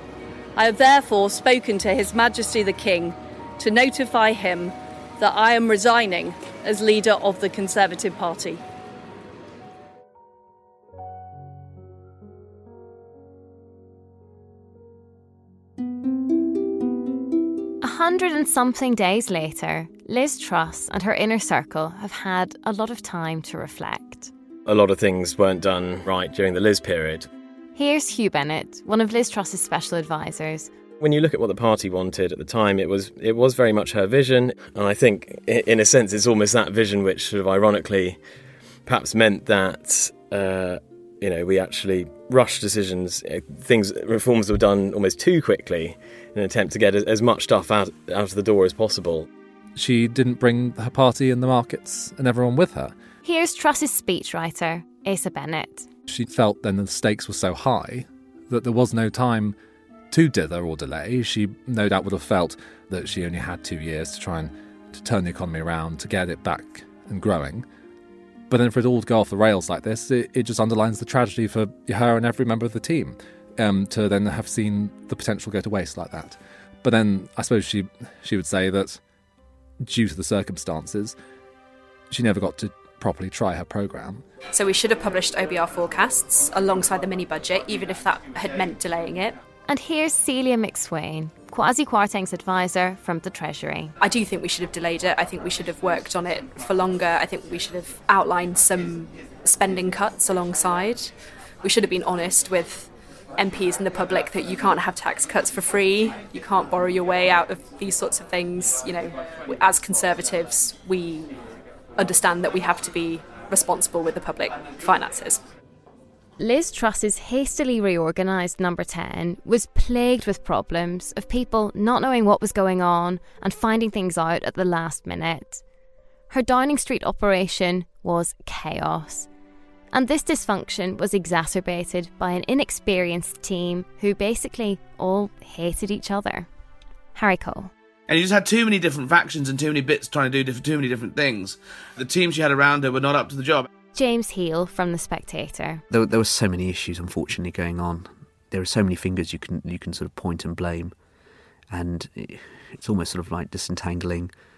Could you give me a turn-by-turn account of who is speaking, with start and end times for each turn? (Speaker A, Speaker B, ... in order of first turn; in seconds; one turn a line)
Speaker A: 0.6-8.6
Speaker B: 17.8-24.3
Speaker C: 24.6-27.3
Speaker B: 27.8-30.7
Speaker C: 31.0-38.2
Speaker C: 38.9-49.3
Speaker D: 49.8-52.9
Speaker B: 53.2-55.9
Speaker D: 56.1-59.5
Speaker D: 60.1-67.6
Speaker D: 68.5-79.0
Speaker D: 79.8-81.2
Speaker D: 82.1-84.2
Speaker E: 84.5-89.3
Speaker B: 89.7-93.9
Speaker E: 94.0-111.3
Speaker E: 112.0-115.4
Speaker B: 116.4-125.6
Speaker B: 126.3-129.3
Speaker B: 129.9-136.5
Speaker B: 137.1-137.7
Speaker F: 138.1-143.7
Speaker B: 143.9-145.8
Speaker G: 145.9-150.9
Speaker G: 151.7-154.3